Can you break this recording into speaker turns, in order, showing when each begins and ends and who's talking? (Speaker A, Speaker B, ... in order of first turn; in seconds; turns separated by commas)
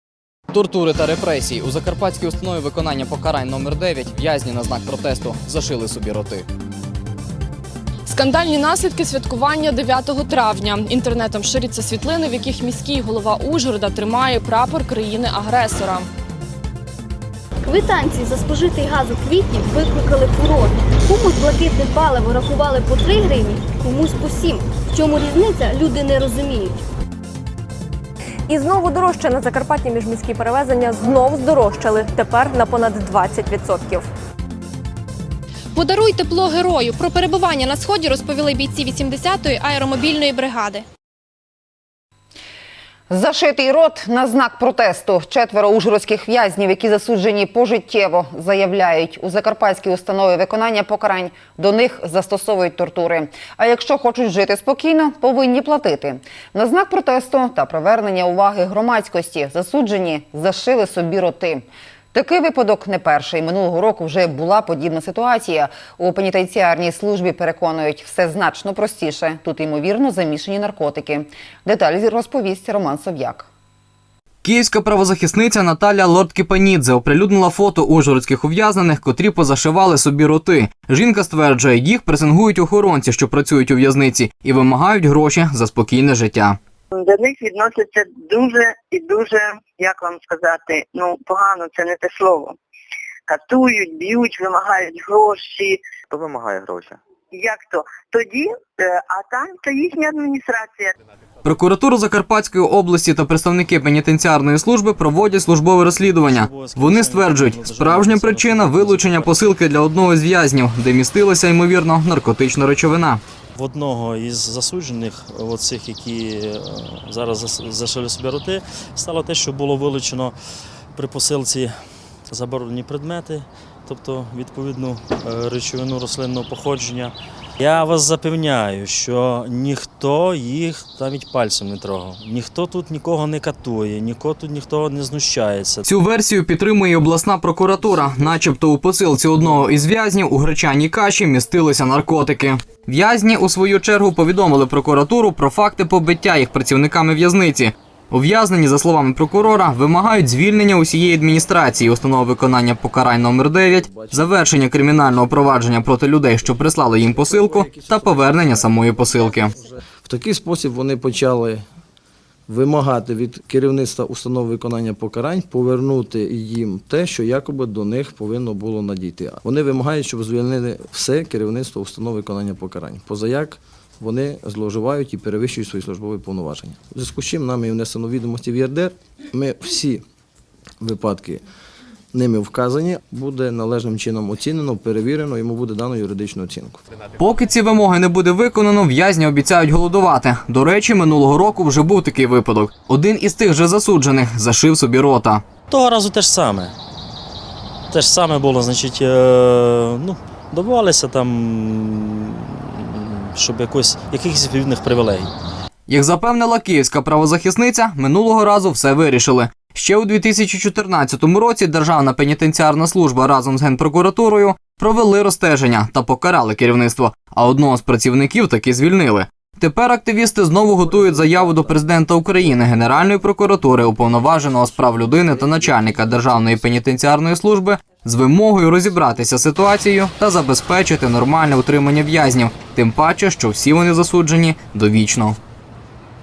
Speaker A: 8.1-16.1, Speaker B: 17.6-26.8, Speaker C: 28.5-34.1, Speaker D: 35.8-40.8, Speaker E: 43.1-73.5, Speaker F: 74.4-86.6, Speaker G: 87.0-92.6, Speaker G: 93.3-100.9, Speaker F: 101.5-113.2, Speaker H: 106.0-109.5, Speaker H: 113.6-135.9, Speaker F: 135.9-159.5, Speaker I: 153.9-154.7, Speaker I: 157.5-157.9, Speaker I: 160.0-161.6, Speaker I: 162.5-180.0, Speaker I: 180.8-181.4, Speaker I: 182.1-186.8, Speaker F: 187.2-195.4, Speaker H: 195.7-196.8, Speaker H: 197.9-205.3, Speaker F: 205.9-235.4